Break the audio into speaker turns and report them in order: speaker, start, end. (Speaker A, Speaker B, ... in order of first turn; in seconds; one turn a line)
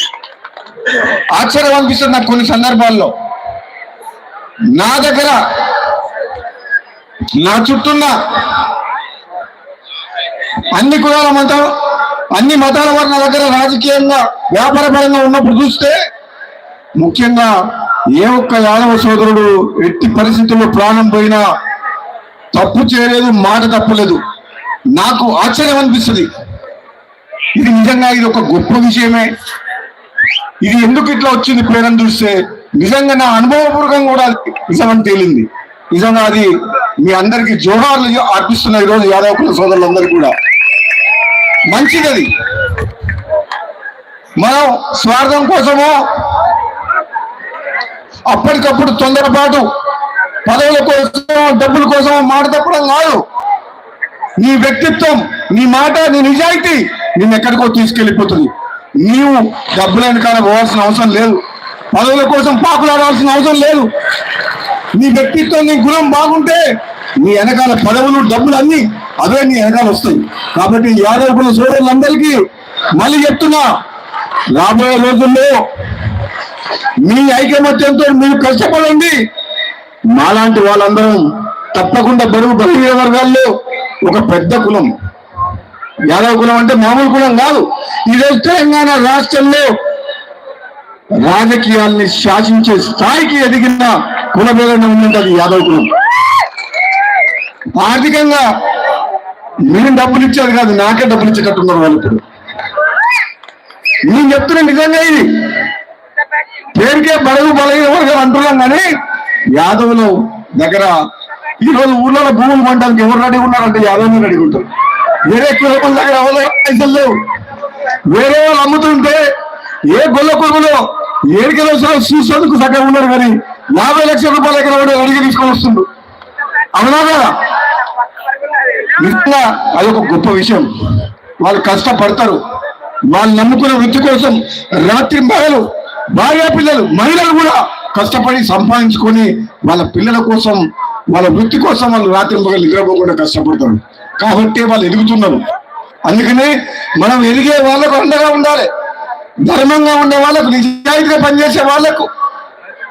Speaker A: 1.3-3.1
Speaker A: 4.8-5.4
Speaker A: 7.4-8.1
Speaker A: 10.7-11.7
Speaker A: 12.3-15.9
Speaker A: 17.0-17.5
Speaker A: 18.2-21.4
Speaker A: 22.5-24.2
Speaker A: 24.9-26.3
Speaker A: 27.6-29.3
Speaker A: 30.6-40.3
Speaker A: 41.7-42.3
Speaker A: 44.4-45.9
Speaker A: 48.3-49.6
Speaker A: 50.5-53.2
Speaker A: 54.4-58.5
Speaker A: 59.0-61.4
Speaker A: 61.9-63.9
Speaker A: 64.9-66.6
Speaker A: 67.2-72.4
Speaker A: 73.0-73.7
Speaker A: 74.5-75.5
Speaker A: 77.1-79.1
Speaker A: 80.1-83.5
Speaker A: 84.0-84.9
Speaker A: 86.1-89.7
Speaker A: 91.2-95.9
Speaker A: 97.8-98.4
Speaker A: 99.7-102.2
Speaker A: 104.1-105.3
Speaker A: 106.7-108.9
Speaker A: 109.6-110.9
Speaker A: 111.6-114.7
Speaker A: 115.2-117.1
Speaker A: 118.1-119.2
Speaker A: 119.9-125.9
Speaker A: 126.8-127.3
Speaker A: 129.0-130.7
Speaker A: 131.4-132.4
Speaker A: 133.1-135.6
Speaker A: 136.1-145.4
Speaker A: 146.1-148.7
Speaker A: 149.5-152.1